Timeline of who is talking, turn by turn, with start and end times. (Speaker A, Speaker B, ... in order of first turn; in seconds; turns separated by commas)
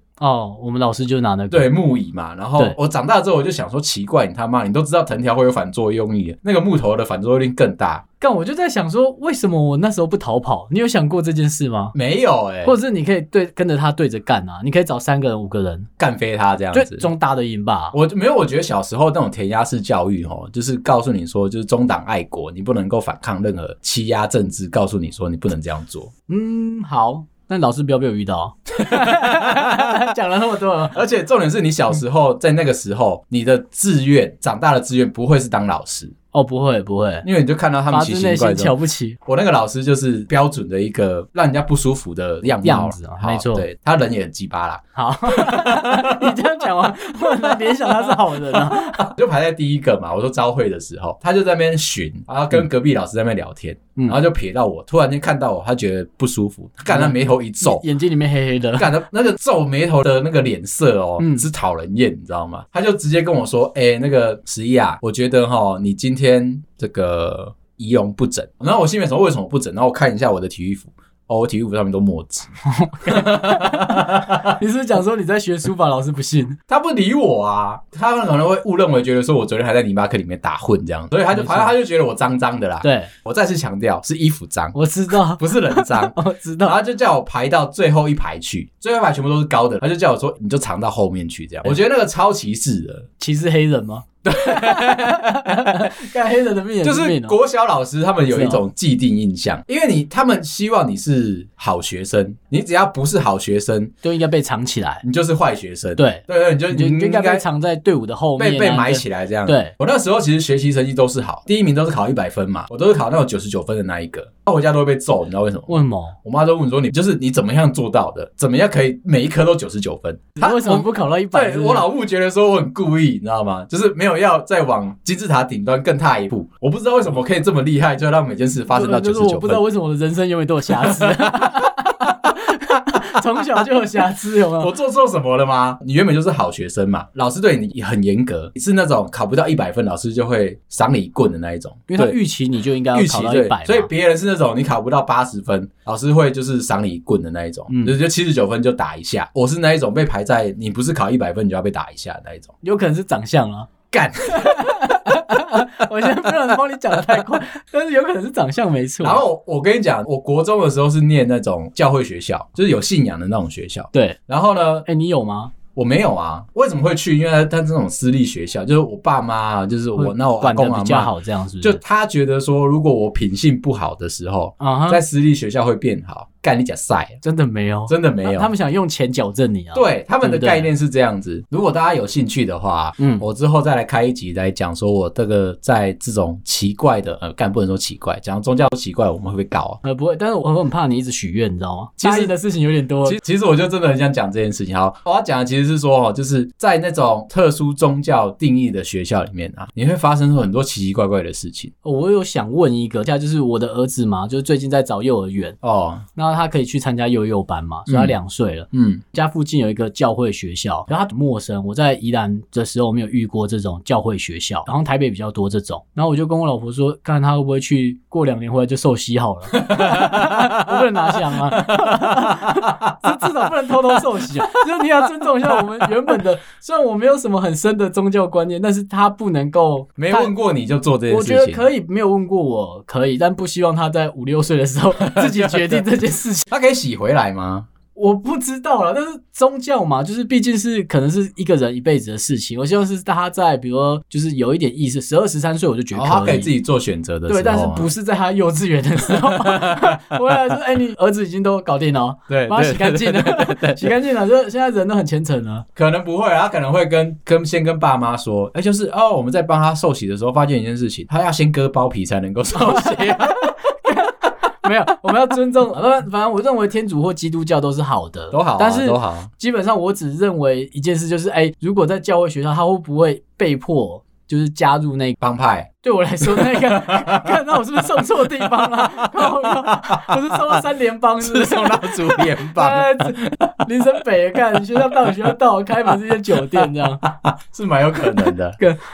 Speaker A: 0.2-1.7, Speaker B: 1.5-8.0, Speaker A: 8.2-11.9, Speaker B: 11.9-12.7, Speaker A: 12.6-15.9, Speaker B: 16.0-17.1, Speaker A: 16.7-17.9, Speaker B: 17.9-26.1, Speaker A: 26.3-31.0, Speaker B: 28.8-30.1, Speaker B: 30.9-36.1, Speaker A: 36.3-37.2, Speaker B: 37.2-46.4, Speaker A: 37.9-39.2, Speaker A: 42.5-43.6, Speaker A: 45.0-49.1, Speaker B: 47.4-57.8, Speaker A: 56.9-58.9, Speaker B: 58.8-72.5, Speaker A: 61.2-61.4, Speaker A: 72.7-76.6, Speaker B: 73.0-74.6, Speaker B: 76.7-93.1, Speaker A: 81.3-81.7, Speaker A: 82.8-83.1, Speaker A: 84.7-86.7, Speaker A: 93.2-97.4, Speaker B: 94.2-95.9, Speaker B: 96.8-103.9, Speaker A: 98.3-98.6, Speaker A: 104.0-105.0, Speaker B: 105.0-107.4, Speaker A: 106.0-109.7, Speaker B: 108.4-129.6, Speaker A: 115.7-116.2, Speaker A: 120.4-121.9, Speaker A: 128.7-134.7, Speaker B: 130.7-131.7, Speaker B: 134.6-142.2, Speaker A: 141.9-143.9, Speaker B: 142.9-152.5, Speaker A: 147.7-147.9, Speaker A: 152.6-153.7, Speaker B: 153.9-156.3, Speaker A: 154.3-159.2, Speaker B: 159.0-164.8, Speaker A: 163.9-164.2, Speaker A: 164.8-165.5, Speaker B: 165.7-177.2, Speaker A: 169.9-171.8, Speaker A: 174.6-175.0, Speaker A: 177.2-180.7, Speaker B: 177.9-178.5, Speaker B: 179.7-189.8, Speaker A: 183.0-183.2, Speaker A: 189.8-193.2, Speaker B: 192.0-192.3, Speaker B: 193.0-201.7, Speaker A: 201.8-205.6, Speaker B: 205.6-206.0, Speaker A: 206.2-230.3, Speaker B: 207.9-208.1, Speaker B: 208.7-209.0, Speaker B: 219.5-223.2, Speaker B: 223.9-224.8, Speaker B: 225.5-225.9, Speaker B: 230.0-231.7, Speaker A: 231.1-236.4, Speaker B: 235.0-235.8, Speaker B: 236.5-237.7, Speaker A: 237.9-246.5, Speaker B: 245.9-247.9, Speaker A: 247.3-255.7, Speaker B: 249.1-250.2, Speaker B: 252.3-253.9, Speaker B: 255.8-263.4, Speaker A: 262.5-275.2, Speaker B: 268.3-269.3, Speaker B: 275.2-275.7, Speaker A: 275.8-287.1, Speaker B: 276.2-277.4, Speaker B: 277.9-280.6, Speaker B: 281.2-283.7, Speaker B: 284.6-285.2, Speaker B: 286.4-288.6